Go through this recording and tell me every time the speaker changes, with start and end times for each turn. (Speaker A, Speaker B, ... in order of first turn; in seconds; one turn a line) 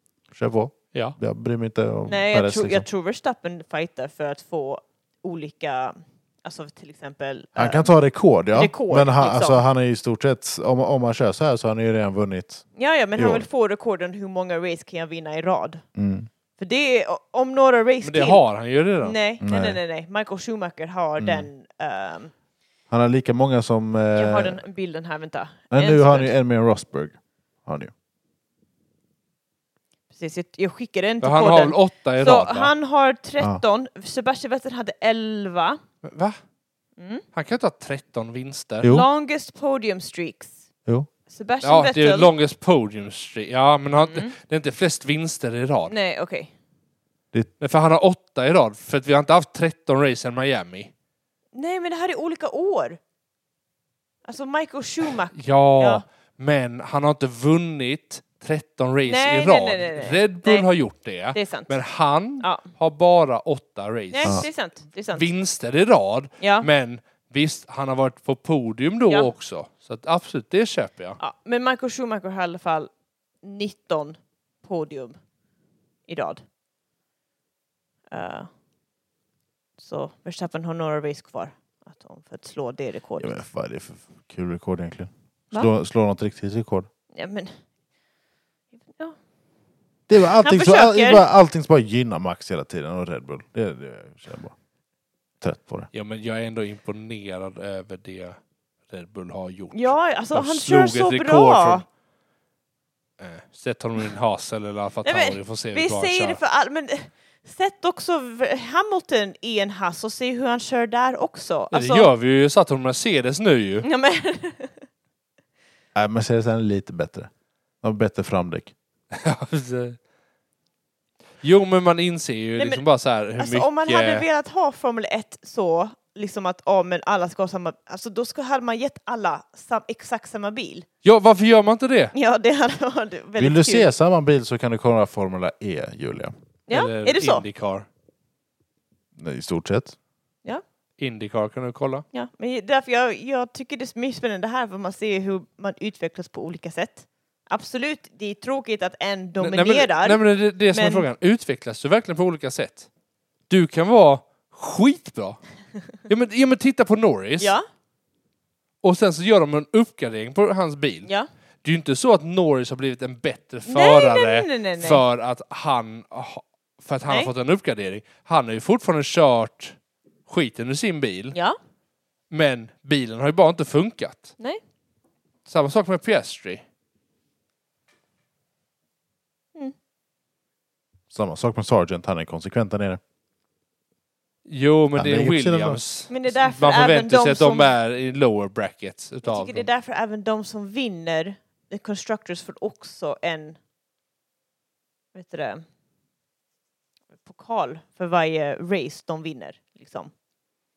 Speaker A: 0.3-2.9
Speaker B: 2.1-7.9
Speaker A: 7.6-12.7
Speaker B: 8.5-9.6
Speaker B: 12.8-15.8
Speaker A: 13.2-13.5
Speaker A: 16.0-16.3
Speaker B: 16.6-18.4
Speaker C: 18.0-19.2
Speaker B: 19.0-22.3
Speaker A: 19.4-19.8
Speaker A: 21.2-21.5
Speaker A: 22.9-24.6
Speaker B: 24.1-26.3
Speaker A: 25.7-27.9
Speaker B: 30.1-35.8
Speaker C: 31.2-32.7
Speaker C: 36.0-36.4
Speaker B: 37.0-37.2
Speaker C: 37.3-38.9
Speaker B: 38.9-40.5
Speaker B: 41.3-42.3
Speaker C: 41.6-45.9
Speaker B: 44.0-44.3
Speaker B: 45.9-46.5
Speaker C: 47.6-50.9
Speaker B: 51.5-53.0
Speaker B: 54.3-56.0
Speaker C: 55.3-64.5
Speaker B: 59.1-60.7
Speaker B: 61.3-61.8
Speaker B: 62.4-62.7
Speaker B: 64.1-65.3
Speaker C: 65.1-71.2
Speaker B: 66.4-66.7
Speaker B: 71.2-72.9
Speaker B: 73.4-75.2
Speaker B: 76.1-76.4
Speaker B: 78.1-78.5
Speaker B: 79.8-83.4
Speaker A: 83.2-86.9
Speaker B: 87.1-87.6
Speaker B: 88.9-89.2
Speaker A: 90.1-94.5
Speaker B: 90.4-91.3
Speaker A: 95.4-95.9
Speaker C: 95.9-98.4
Speaker C: 98.9-101.8
Speaker B: 99.7-101.8
Speaker C: 103.2-106.4
Speaker B: 105.0-112.1
Speaker C: 111.7-113.9
Speaker B: 113.8-114.8
Speaker A: 116.0-117.3
Speaker A: 117.8-118.7
Speaker C: 119.1-120.0
Speaker C: 121.4-124.3
Speaker B: 122.6-122.8
Speaker B: 123.4-130.9
Speaker C: 131.0-132.1
Speaker B: 132.1-133.9
Speaker A: 133.4-136.3
Speaker B: 136.7-137.5
Speaker C: 136.7-137.9
Speaker A: 139.2-140.0
Speaker C: 141.0-142.1
Speaker B: 142.1-151.1
Speaker C: 149.4-152.9
Speaker C: 153.5-155.4
Speaker C: 156.1-157.6
Speaker B: 157.4-157.7
Speaker C: 158.8-161.1
Speaker C: 161.6-169.8
Speaker B: 163.7-165.0
Speaker C: 170.3-171.4
Speaker C: 172.3-174.3
Speaker C: 175.5-176.6
Speaker A: 181.1-183.0
Speaker C: 184.5-189.7
Speaker A: 184.9-185.8
Speaker B: 186.1-187.7
Speaker B: 189.2-193.6
Speaker B: 195.1-195.6
Speaker B: 197.2-200.1